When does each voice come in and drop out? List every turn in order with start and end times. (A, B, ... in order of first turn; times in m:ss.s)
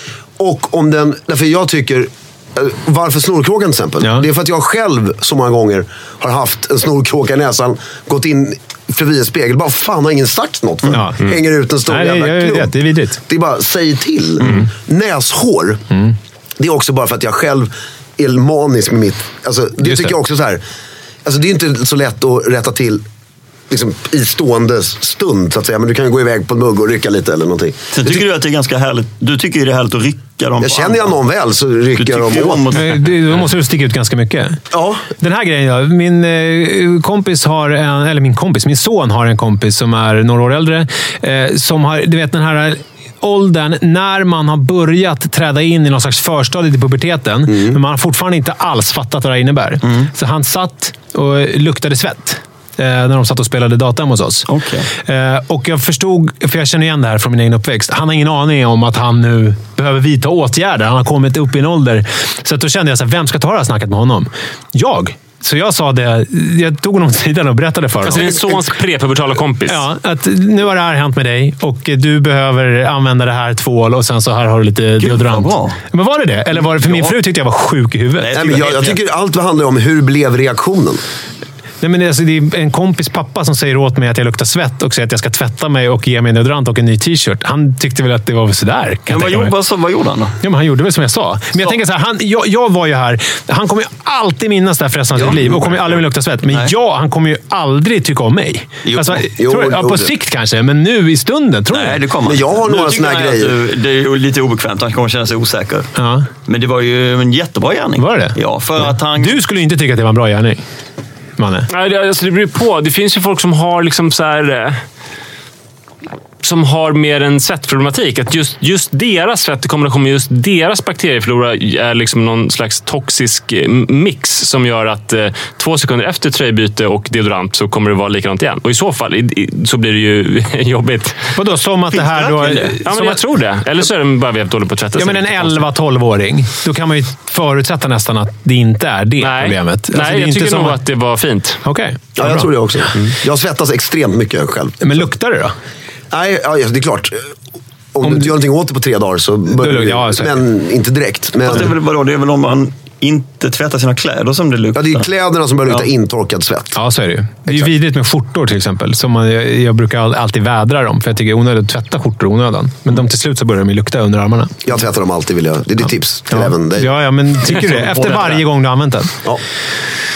0:00.4-0:15.8 A
0:10.9-0:11.2 B
0:11.9-0:13.2 B
0:16.6-0:20.6 A
0:19.8-0:20.2 B
0:21.2-0:23.0 A
0:23.7-0:28.2 A
0:27.9-0:31.1 C
0:30.6-0:32.7 A
0:32.0-0:33.0 C
0:32.7-0:34.6 B
0:34.7-0:35.0 A
0:35.2-1:08.4 B
0:49.8-0:50.1 C
0:54.5-0:54.9 C
1:08.0-1:09.8 D
1:09.7-1:18.3 B
1:15.0-1:15.8 C
1:16.6-1:17.2 C
1:18.2-1:19.0 C
1:18.3-1:21.0 A
1:21.8-1:29.5 B
1:29.1-1:30.4 C
1:30.4-1:42.0 B
1:35.2-1:35.5 C
1:36.5-1:36.7 C
1:38.8-1:39.2 C
1:39.4-1:40.1 A
1:41.7-1:45.9 C
1:42.2-1:43.6 A
1:46.0-1:46.3 B
1:46.5-1:49.4 C
1:48.0-1:50.6 B
1:51.4-1:51.7 B
1:51.7-1:54.8 D
1:56.4-2:11.4 D
2:11.4-2:13.2 B
2:11.9-2:12.8 C
2:12.9-2:15.6 D
2:15.0-2:20.8 B
2:19.2-2:21.6 D
2:21.6-2:22.5 B
2:22.2-2:25.1 A
2:24.8-2:25.5 B
2:26.1-2:27.3 A
2:27.9-2:31.7 A
2:29.5-2:30.4 B
2:31.4-2:35.1 C
2:34.8-2:36.8 A
2:36.8-2:44.6 B
2:44.6-2:46.9 A
2:46.3-2:49.2 B
2:47.5-2:48.4 C